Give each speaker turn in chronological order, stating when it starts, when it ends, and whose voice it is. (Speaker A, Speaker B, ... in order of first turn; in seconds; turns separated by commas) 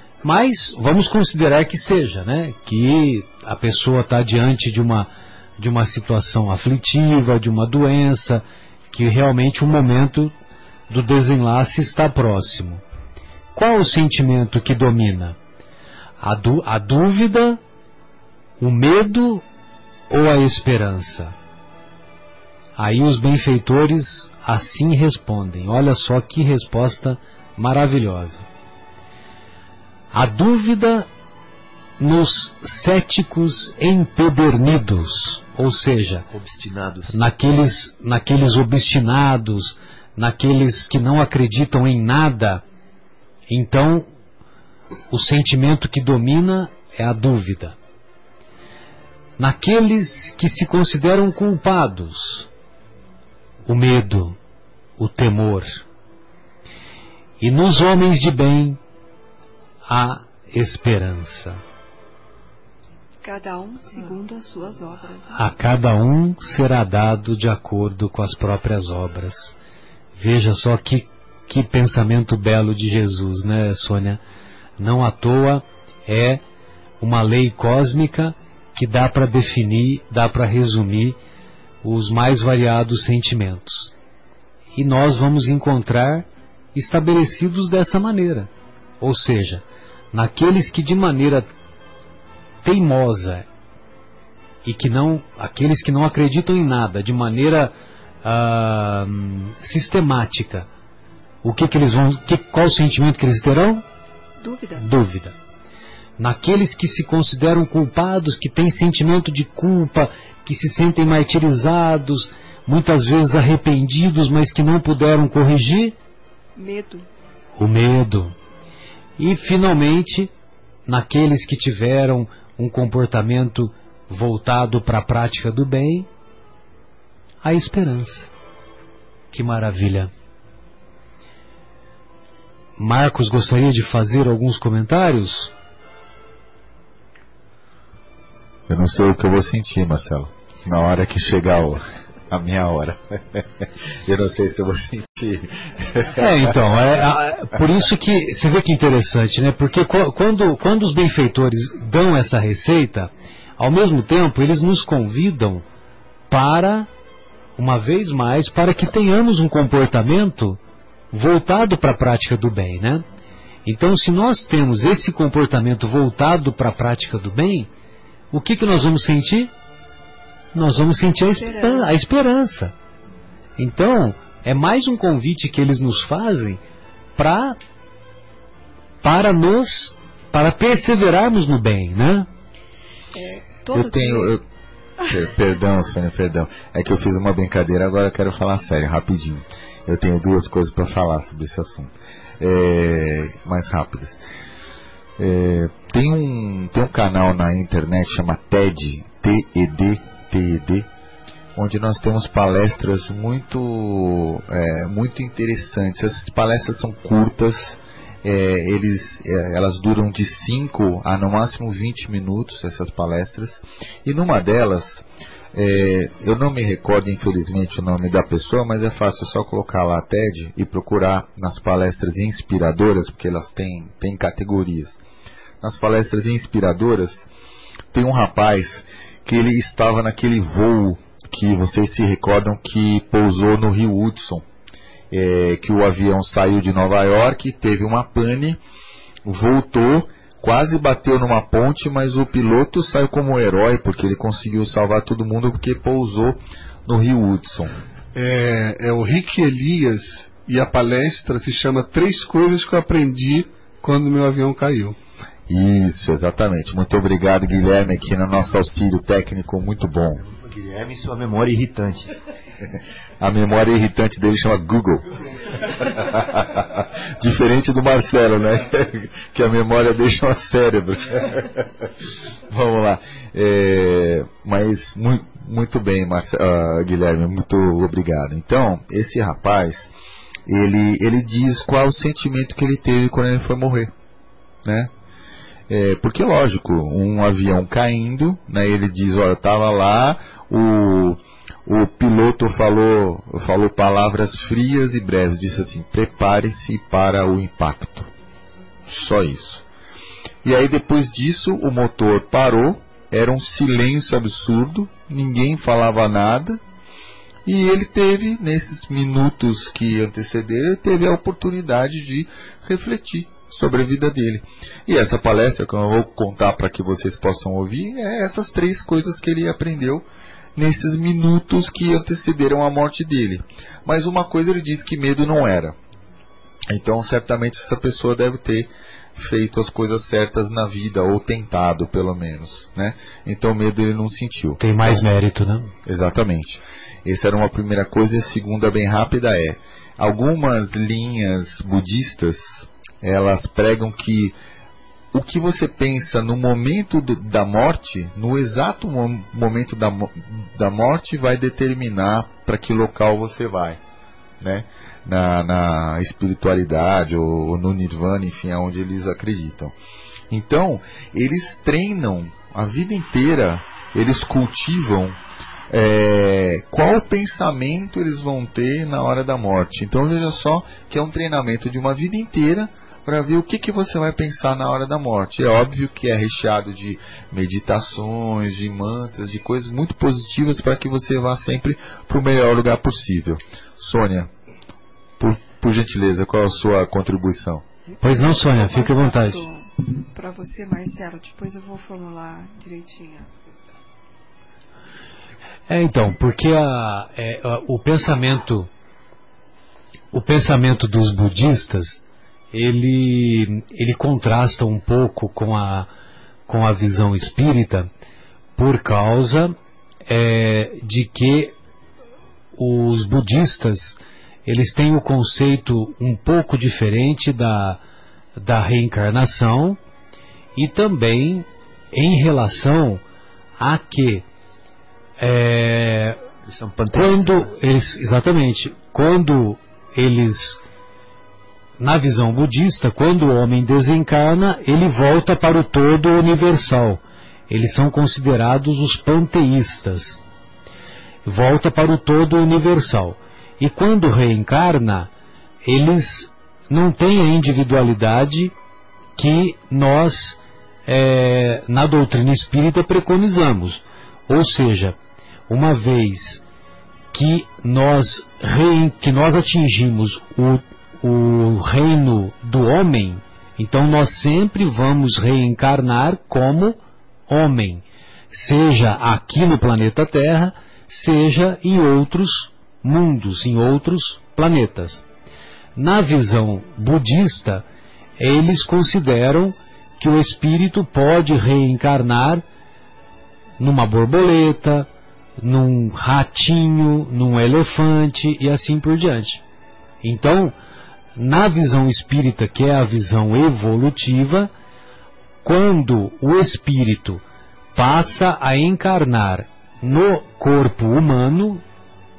Speaker A: 0.2-10.3, Speaker A: 10.9-12.8, Speaker A: 13.5-15.4, Speaker A: 16.2-17.6, Speaker A: 18.6-19.4, Speaker A: 20.1-21.3, Speaker A: 22.8-28.4, Speaker A: 30.1-31.1, Speaker A: 32.0-36.2, Speaker B: 36.3-37.2, Speaker A: 37.1-42.6, Speaker A: 43.5-44.1, Speaker A: 45.1-47.8, Speaker A: 49.4-52.5, Speaker A: 53.6-54.4, Speaker A: 55.0-55.8, Speaker A: 57.4-58.8, Speaker A: 59.9-61.6, Speaker C: 63.2-65.3, Speaker A: 65.3-69.5, Speaker A: 70.2-74.2, Speaker A: 74.8-76.4, Speaker A: 77.0-81.2, Speaker A: 81.8-83.9, Speaker A: 84.7-91.5, Speaker A: 92.6-93.5, Speaker A: 94.6-100.7, Speaker A: 101.4-103.8, Speaker C: 104.4-104.8, Speaker A: 104.8-105.3, Speaker A: 106.2-116.0, Speaker C: 116.6-117.0, Speaker A: 117.6-118.3, Speaker A: 119.2-120.3, Speaker A: 120.9-126.1, Speaker A: 127.4-128.3, Speaker A: 129.3-130.1, Speaker A: 132.8-135.5, Speaker D: 138.7-146.6, Speaker A: 146.1-155.6, Speaker A: 156.3-156.9, Speaker A: 157.6-160.6, Speaker A: 161.1-163.0, Speaker A: 163.6-167.7, Speaker A: 168.3-169.5, Speaker A: 170.5-172.7, Speaker C: 171.3-171.9, Speaker A: 173.6-176.6, Speaker A: 177.2-177.6, Speaker A: 179.0-182.3, Speaker C: 183.1-184.4, Speaker D: 183.7-184.4, Speaker D: 185.1-194.2, Speaker D: 195.2-200.9, Speaker D: 201.5-225.0, Speaker D: 225.6-227.3, Speaker D: 227.9-234.4, Speaker D: 235.1-238.6, Speaker D: 239.2-247.8, Speaker E: 248.1-255.0, Speaker D: 255.5-260.2, Speaker B: 260.3-262.2, Speaker D: 263.2-265.1, Speaker D: 265.6-271.9, Speaker D: 272.5-279.9, Speaker D: 280.5-283.9, Speaker D: 284.6-284.9, Speaker D: 285.7-298.1, Speaker D: 298.9-299.6, Speaker D: 300.4-306.6, Speaker D: 307.4-325.8, Speaker D: 326.7-335.0, Speaker A: 334.6-335.7, Speaker D: 335.9-344.4, Speaker D: 345.1-353.8, Speaker D: 354.4-359.7, Speaker D: 360.3-365.2, Speaker D: 365.7-384.3, Speaker D: 385.2-387.6, Speaker A: 388.0-389.4, Speaker C: 388.0-393.3, Speaker A: 395.7-398.7, Speaker A: 400.1-405.9, Speaker A: 406.5-407.9, Speaker A: 408.6-409.5, Speaker A: 410.1-411.5, Speaker A: 412.6-417.8, Speaker A: 418.4-419.8, Speaker A: 420.6-423.0, Speaker A: 423.6-424.3, Speaker A: 425.2-426.2, Speaker B: 426.4-427.3, Speaker A: 426.9-430.6, Speaker A: 431.8-440.2, Speaker A: 441.2-445.1, Speaker A: 445.6-448.5, Speaker A: 449.2-455.0, Speaker A: 455.5-456.4, Speaker A: 457.1-475.0, Speaker A: 475.8-477.6, Speaker A: 478.2-482.4, Speaker A: 483.6-489.4, Speaker A: 490.0-490.5, Speaker A: 491.1-494.5, Speaker A: 495.4-497.2, Speaker A: 497.7-501.6